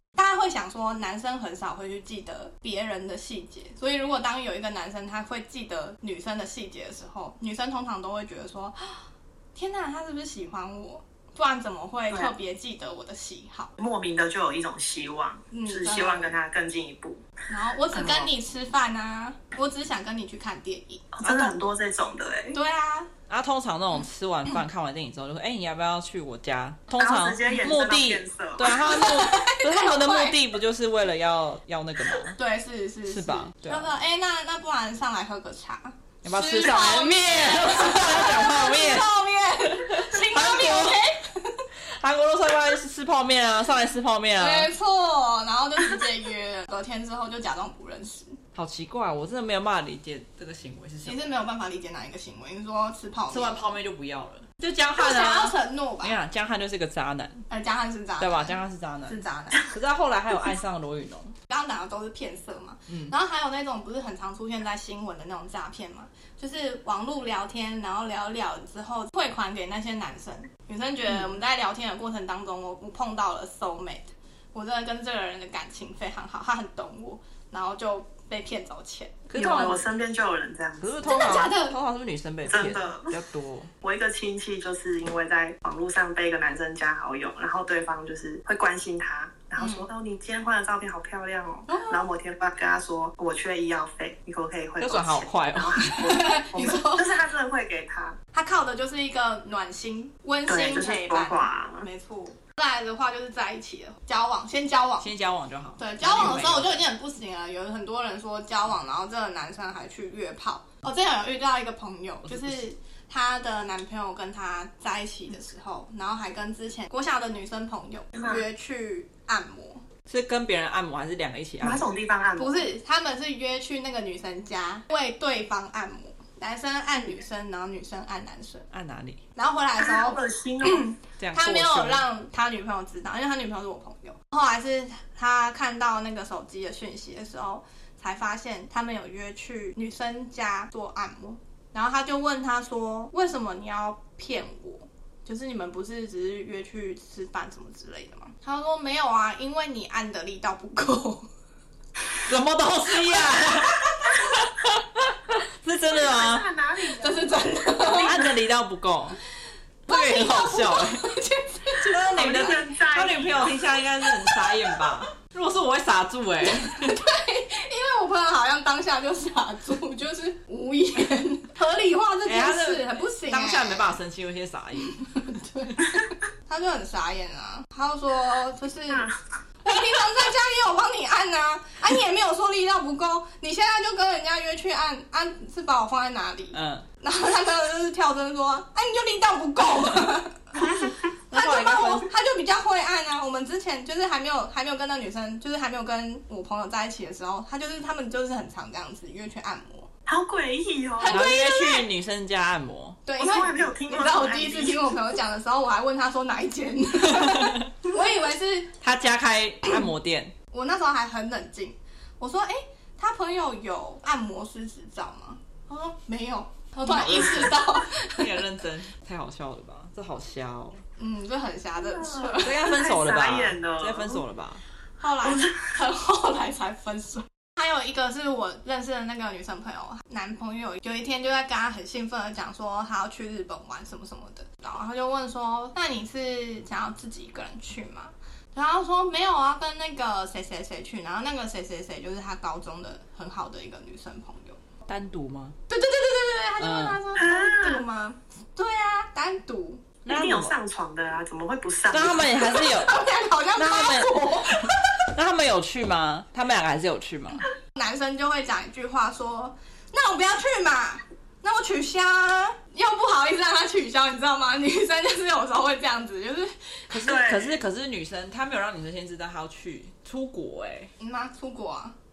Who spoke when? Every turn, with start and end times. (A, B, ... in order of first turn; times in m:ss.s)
0:00.2-0:13.8 A
0:13.8-0:17.2 B
0:15.5-0:16.4 A
0:17.5-0:21.5 A
0:17.9-0:18.3 B
0:21.1-0:22.6 B
0:22.5-0:23.1 A
0:23.3-0:32.4 C
0:27.0-0:28.8 B
0:28.6-0:30.4 A
0:32.2-0:41.6 A
0:33.1-0:33.9 C
0:36.2-0:39.0 C
0:39.7-0:41.0 C
0:41.9-0:44.7 C
0:44.4-0:48.4 A
0:48.5-0:51.2 C
0:51.0-0:53.6 A
0:53.3-0:57.5 C
0:54.9-0:56.2 A
0:57.5-0:59.7 A
0:58.2-1:01.3 C
1:01.5-1:19.8 A
1:02.9-1:03.1 C
1:19.3-1:19.8 C
1:19.4-1:21.5 B
1:20.8-1:23.7 C
1:21.0-1:21.7 A
1:22.4-1:23.2 B
1:23.8-1:38.2 B
1:29.6-1:29.9 A
1:31.7-1:32.0 A
1:34.8-1:36.3 C
1:35.8-1:37.1 A
1:38.3-1:45.1 A
1:40.5-1:41.9 B
1:45.0-1:46.8 C
1:45.8-1:59.8 A
1:52.2-1:52.6 C
1:58.1-1:58.4 B
2:00.1-2:01.9 C
2:01.6-2:02.7 B
2:02.4-2:08.7 A
2:08.7-2:09.2 C
2:09.4-2:31.2 A
2:09.8-2:10.9 B
2:11.2-2:12.0 C
2:32.2-2:36.5 C
2:33.1-2:33.7 A
2:35.9-2:38.4 B
2:37.0-2:38.2 A
2:37.8-2:39.2 C
2:39.9-2:41.1 C
2:39.9-2:42.6 A
2:41.8-2:47.0 C
2:42.1-2:43.7 B
2:44.0-2:45.0 A
2:46.4-2:54.0 A
2:52.2-2:55.0 C
2:54.8-2:59.1 A
2:58.9-2:59.2 B
2:59.6-3:10.6 A
3:06.5-3:06.8 C
3:10.6-3:10.9 B
3:11.3-3:12.1 C
3:11.3-3:19.9 A
3:20.0-3:21.2 B
3:21.0-3:21.9 A
3:21.1-3:23.0 C
3:23.0-3:28.7 A
3:23.2-3:25.0 B
3:27.0-3:27.7 C
3:28.8-3:30.3 C
3:30.5-3:38.4 A
3:36.9-3:40.8 C
3:41.0-3:42.9 A
3:41.8-3:44.2 B
3:42.4-3:44.6 C
3:45.0-4:04.6 A
3:45.2-3:45.6 B
4:04.9-4:05.6 C
4:05.7-4:09.8 A
4:06.6-4:07.0 C
4:07.2-4:07.8 B
4:10.0-4:10.5 C
4:10.1-4:12.6 B
4:11.9-4:13.0 C
4:12.4-4:15.1 A
4:13.6-4:17.5 C
4:17.7-4:26.5 A
4:26.9-4:30.9 C
4:27.0-4:27.6 B
4:31.0-4:31.9 A